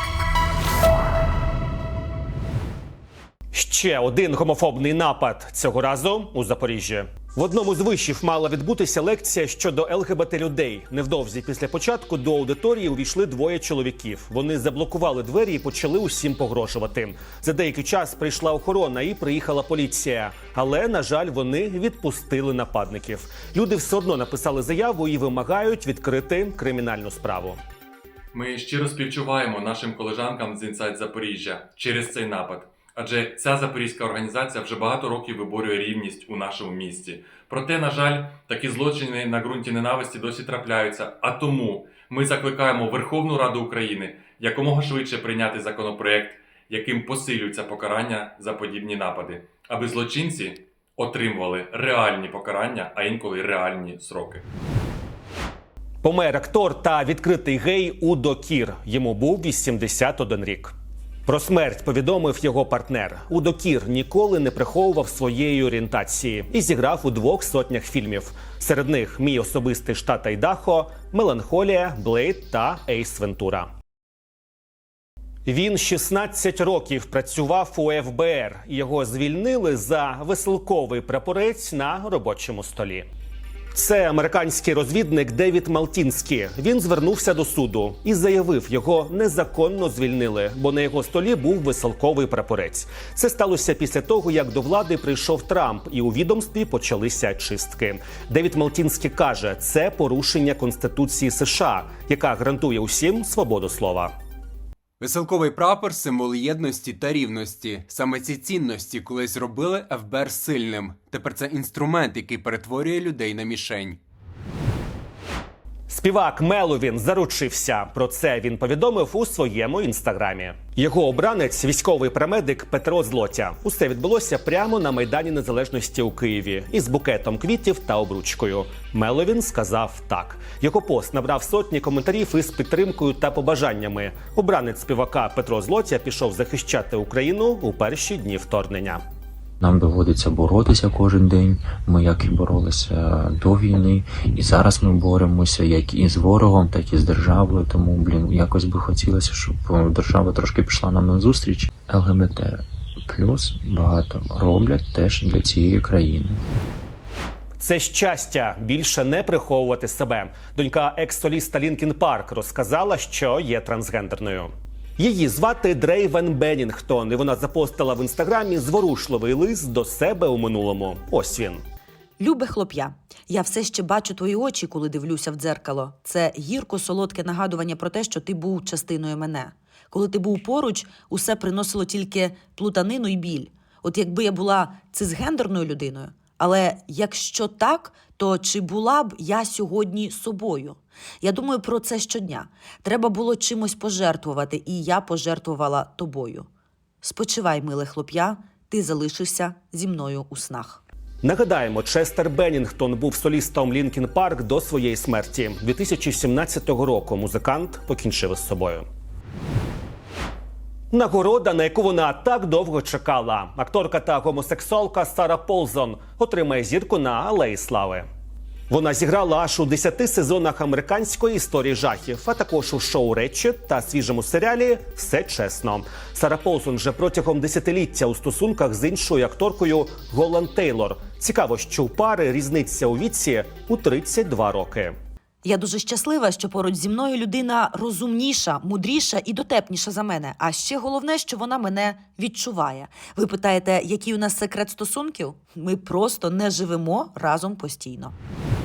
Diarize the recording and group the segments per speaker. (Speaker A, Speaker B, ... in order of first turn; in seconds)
Speaker A: 3.5-27.6, 56.0-60.7, 61.3-73.7, 75.5-83.1, 83.7-104.1, 115.9-139.0, 157.6-171.6, 201.2-208.9, 210.9-218.1, 218.7-234.9
Speaker B: 28.3-54.4
Speaker C: 105.0-114.0
Speaker D: 139.6-156.4
Speaker E: 172.2-196.5, 197.0-200.8, 235.4-248.1